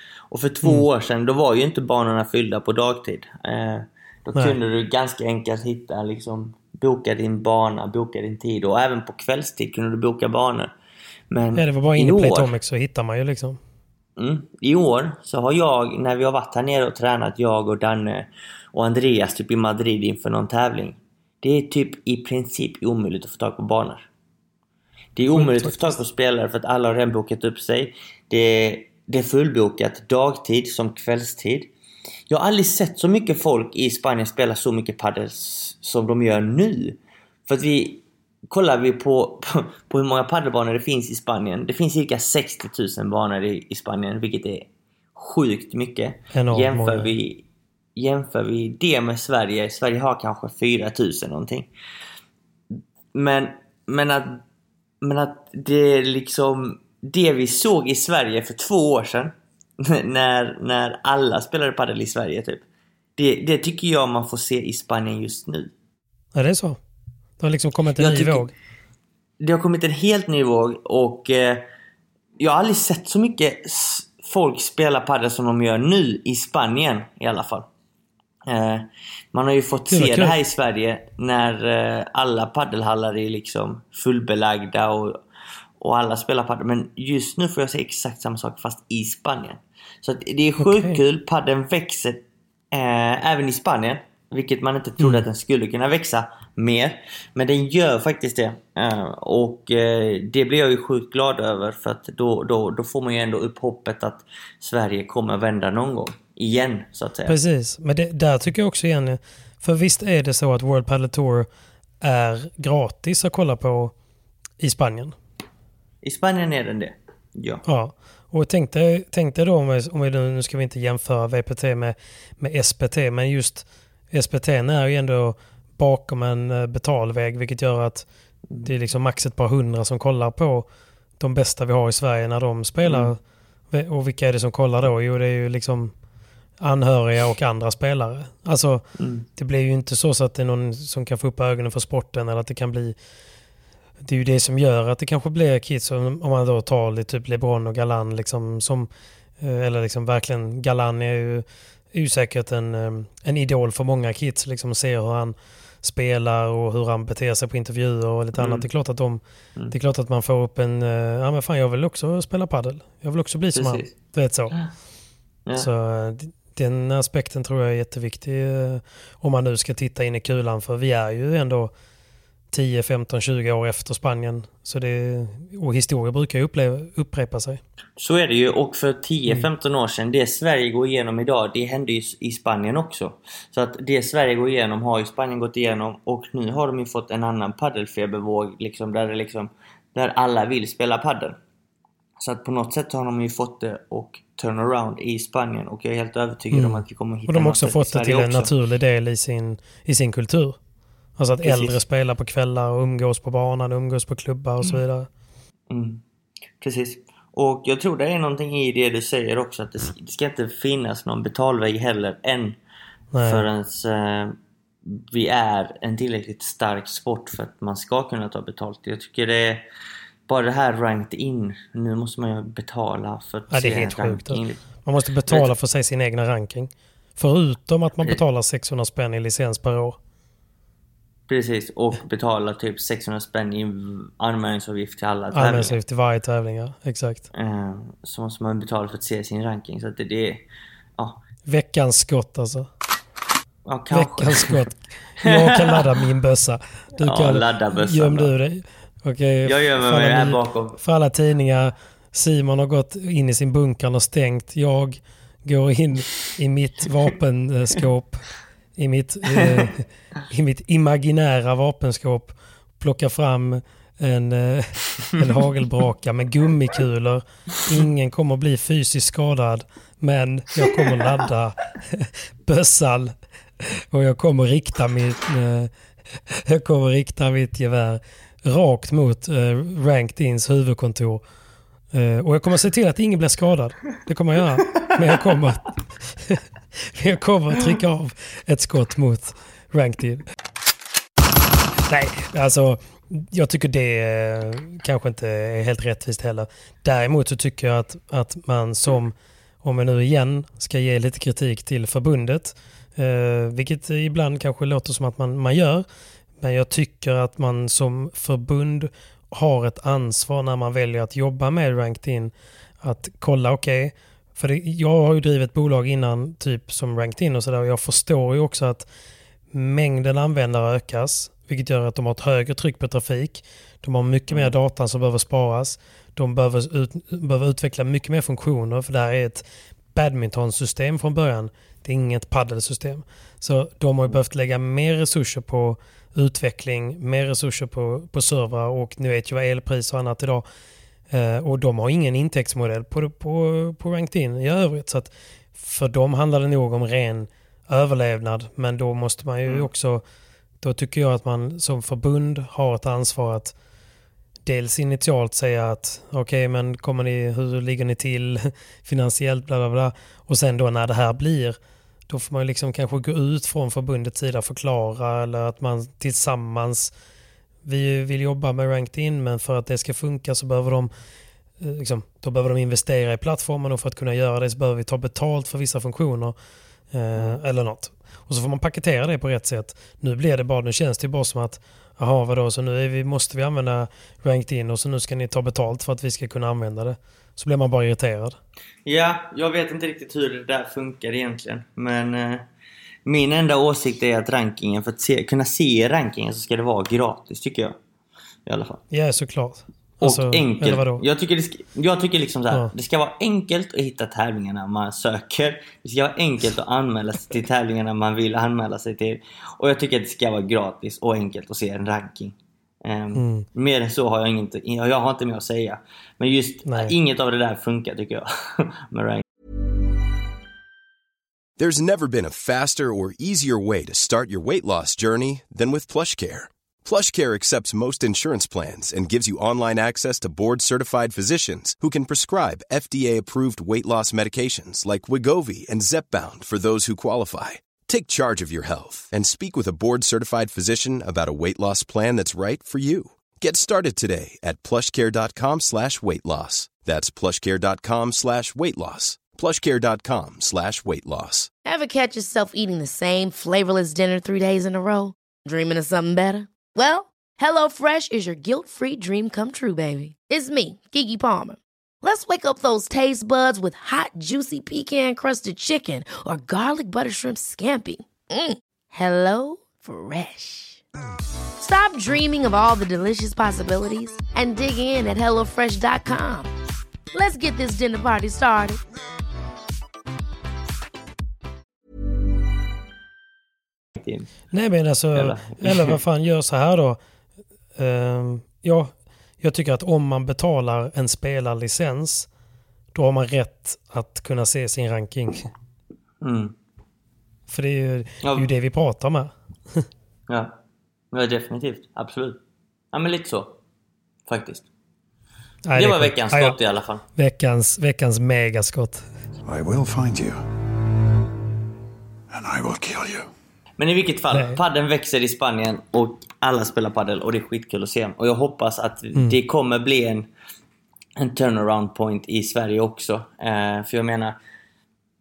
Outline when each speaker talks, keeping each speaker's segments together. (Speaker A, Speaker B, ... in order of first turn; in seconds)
Speaker A: 0.3-10.7, 11.3-12.5, 14.2-24.1, 25.1-31.7, 32.3-47.4, 48.0-51.7, 53.1-54.4, 55.0-62.6, 63.2-65.7, 68.0-68.5, 69.4-71.7, 72.4-77.7, 78.5-85.2, 85.8-107.4, 116.0-117.6, 132.9-133.1, 139.0-139.2, 158.4-158.7, 163.5-163.9, 178.0-191.3, 192.2-198.5, 201.4-201.8, 205.7-206.0, 206.6-212.6, 213.2-219.6, 220.3-224.6, 225.3-225.5, 231.3-235.8, 237.3-240.4, 243.6-244.6, 245.2-245.9, 247.0-248.3, 249.4-250.8, 259.4-259.7, 324.3-324.5, 388.9-392.4, 393.1-397.8, 398.4-398.8, 400.0-419.2, 484.0-484.3, 485.1-486.0, 496.2-496.5, 500.3-500.5, 501.1-502.4, 502.9-503.5, 504.3-504.7, 505.7-507.0, 513.8-520.3, 521.2-524.4
Speaker B: 11.5-13.6, 25.3-26.0, 46.3-47.1, 66.3-66.8, 67.4-68.5, 79.9-80.3, 90.6-91.0, 95.0-95.2, 107.3-111.5, 112.0-113.9, 114.6-115.1, 117.7-128.1, 128.6-130.7, 131.2-133.2, 133.7-135.9, 136.6-138.8, 139.3-142.9, 144.0-148.9, 149.4-164.6, 165.6-171.7, 172.5-177.6, 196.5-200.5, 201.2-205.1, 213.1-213.4, 223.5-230.0, 235.3-237.2, 241.4-242.7, 243.9-273.1, 273.9-275.7, 276.4-281.2, 281.9-286.4, 286.9-290.2, 291.9-305.8, 306.4-318.9, 319.5-340.4, 341.1-350.0, 350.6-353.5, 354.4-361.6, 362.1-366.9, 367.6-370.9, 371.6-376.4, 376.9-388.3, 398.9-401.0, 413.1-413.4, 416.7-416.9, 484.5-487.0, 487.8-492.3, 492.9-495.5, 497.5-499.9, 505.6-506.6, 507.1-509.1, 514.3-514.6
Speaker C: 421.6-451.5
Speaker D: 451.6-470.8, 471.6-476.5, 477.1-478.8
Speaker E: 509.4-510.4, 512.3-513.3